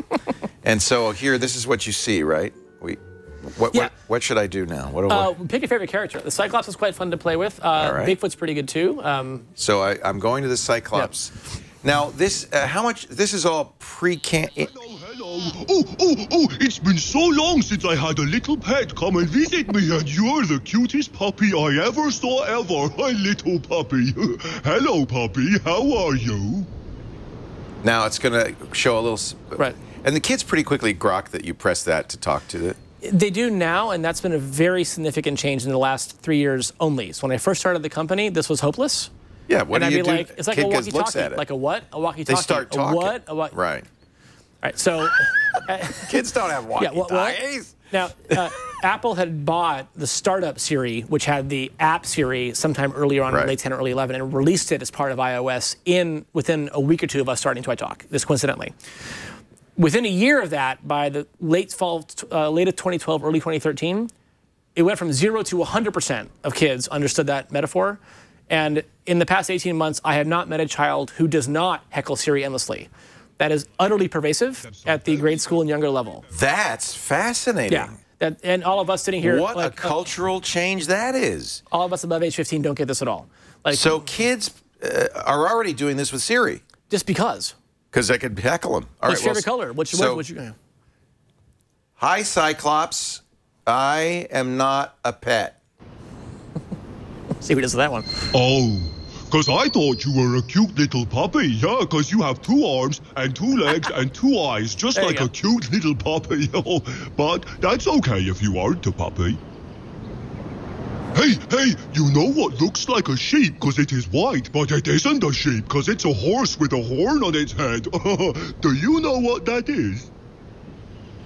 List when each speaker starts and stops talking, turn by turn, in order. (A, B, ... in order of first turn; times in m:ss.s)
0:00.6-0:05.3 A
0:05.1-0:09.5 B
0:07.8-0:08.2 A
0:09.6-0:14.7 A
0:14.6-0:26.7 C
0:27.8-0:32.8 A
0:33.0-0:39.1 B
0:39.5-0:41.4 A
0:39.7-0:43.6 B
0:42.3-0:43.8 A
0:44.6-0:46.1 B
0:45.9-0:47.7 A
0:46.8-0:58.7 B
0:53.3-0:53.5 A
0:59.8-1:04.1 B
1:04.8-1:16.2 B
1:14.6-1:16.2 C
1:16.3-1:18.0 A
1:17.7-1:20.0 B
1:19.2-1:21.6 A
1:21.7-1:24.0 B
1:23.7-1:26.6 A
1:26.9-1:27.5 B
1:27.9-1:30.2 A
1:29.0-1:30.5 B
1:32.0-1:35.6 A
1:37.4-1:38.3 B
1:38.3-1:49.4 C
1:44.9-1:45.3 B
1:51.1-2:00.1 C